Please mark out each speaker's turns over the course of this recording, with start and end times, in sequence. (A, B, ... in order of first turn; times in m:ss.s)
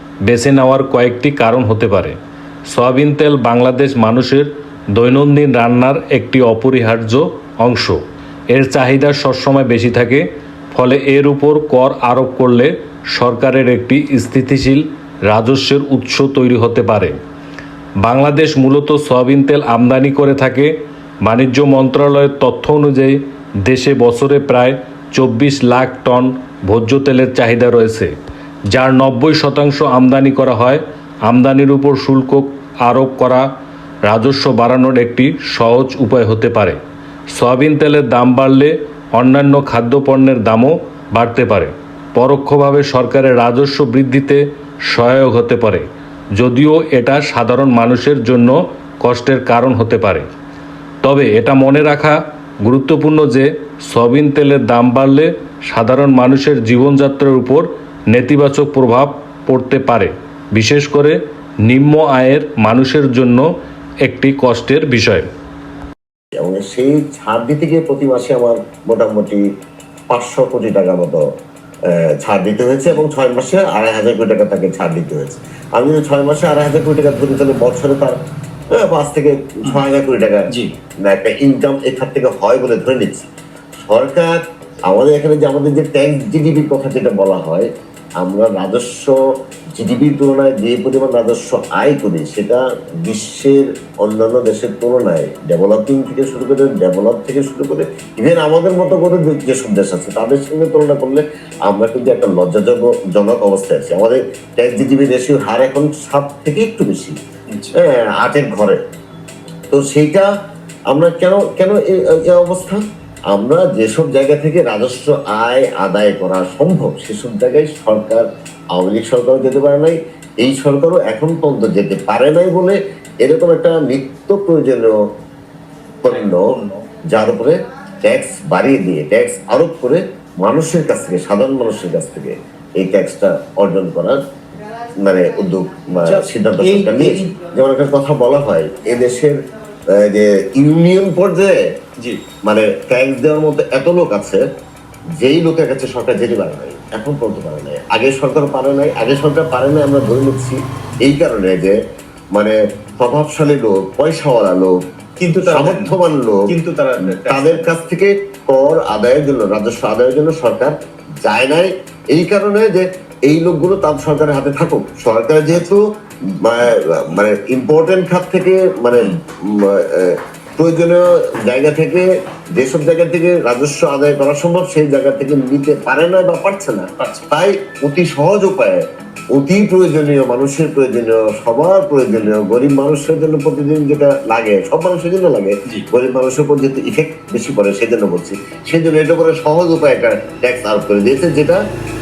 0:00.2-0:02.2 A
0:02.7-0:17.2 A
0:18.0-0:20.7 A
0:21.2-0:28.1 A
0:28.7-0:33.5 A
0:34.1-0:36.8 A
0:37.3-0:45.8 A
0:46.4-0:50.3 A
0:51.0-1:03.5 A
1:04.0-1:05.3 A
1:06.4-1:09.4 B
1:10.1-1:11.2 B
1:11.9-1:18.1 B
1:18.7-1:20.5 B
1:21.0-1:23.3 B
1:23.9-1:24.4 B
1:24.9-1:27.7 B
1:28.2-1:29.2 B
1:29.8-1:47.2 B
1:47.5-1:47.8 C
1:47.7-1:48.8 B
1:49.7-1:50.3 B
1:50.9-1:52.8 B
1:53.3-1:58.2 B
1:58.7-2:04.9 B
2:06.0-2:06.5 B
2:06.1-2:06.8 C
2:07.1-2:14.2 B
2:15.0-2:19.4 B
2:16.0-2:17.4 C
2:19.9-2:21.6 B
2:22.5-2:24.4 B
2:25.2-2:31.8 B
2:32.4-2:34.7 B
2:35.2-2:37.8 C
2:35.4-2:36.4 B
2:37.2-2:58.8 B
2:57.0-2:57.3 C
2:59.3-3:11.6 B